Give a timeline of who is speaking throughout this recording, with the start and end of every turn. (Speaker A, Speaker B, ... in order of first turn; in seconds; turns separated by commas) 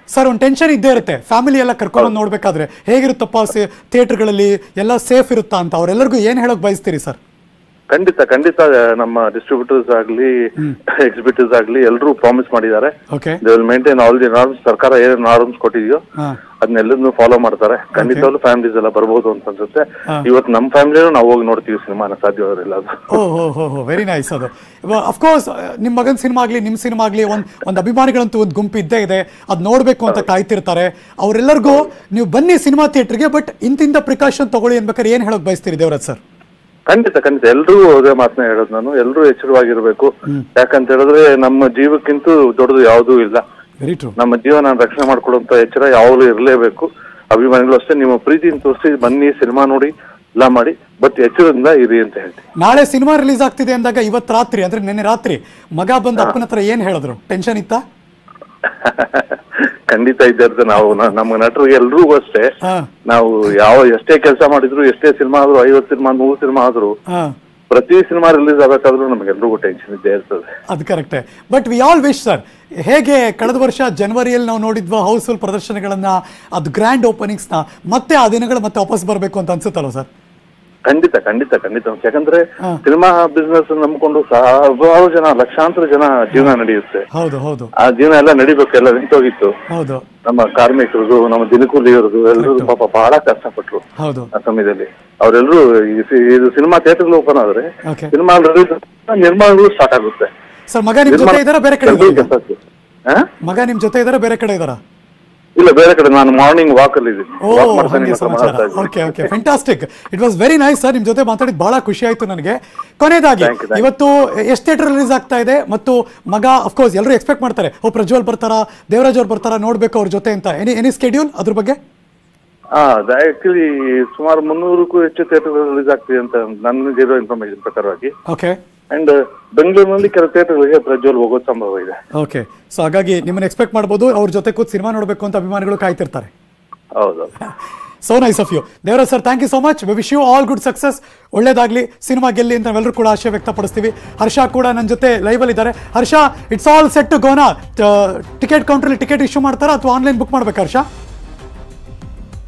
Speaker A: 0.1-7.2, Speaker B: 7.9-10.3, Speaker B: 11.0-16.0, Speaker A: 13.1-13.4, Speaker B: 16.6-23.0, Speaker A: 17.9-18.3, Speaker A: 23.1-36.2, Speaker B: 36.9-43.4, Speaker A: 43.8-44.1, Speaker B: 44.2-52.4, Speaker A: 52.6-57.8, Speaker B: 58.8-59.3, Speaker B: 59.9-62.5, Speaker A: 62.6-62.9, Speaker B: 63.1-66.9, Speaker A: 67.1-67.3, Speaker B: 67.7-70.5, Speaker A: 70.7-80.1, Speaker B: 80.9-87.0, Speaker A: 87.1-87.7, Speaker B: 87.8-89.5, Speaker A: 89.7-90.0, Speaker B: 90.3-93.8, Speaker A: 92.4-92.7, Speaker A: 94.0-94.3, Speaker B: 94.3-100.3, Speaker A: 97.9-98.1, Speaker A: 100.7-102.3, Speaker B: 101.1-102.6, Speaker A: 103.4-104.8, Speaker B: 105.6-109.2, Speaker A: 107.4-121.8, Speaker B: 113.4-113.8, Speaker B: 122.8-128.1, Speaker A: 128.3-128.6, Speaker B: 128.9-131.9, Speaker A: 132.2-136.3, Speaker B: 137.0-137.3, Speaker A: 138.1-150.8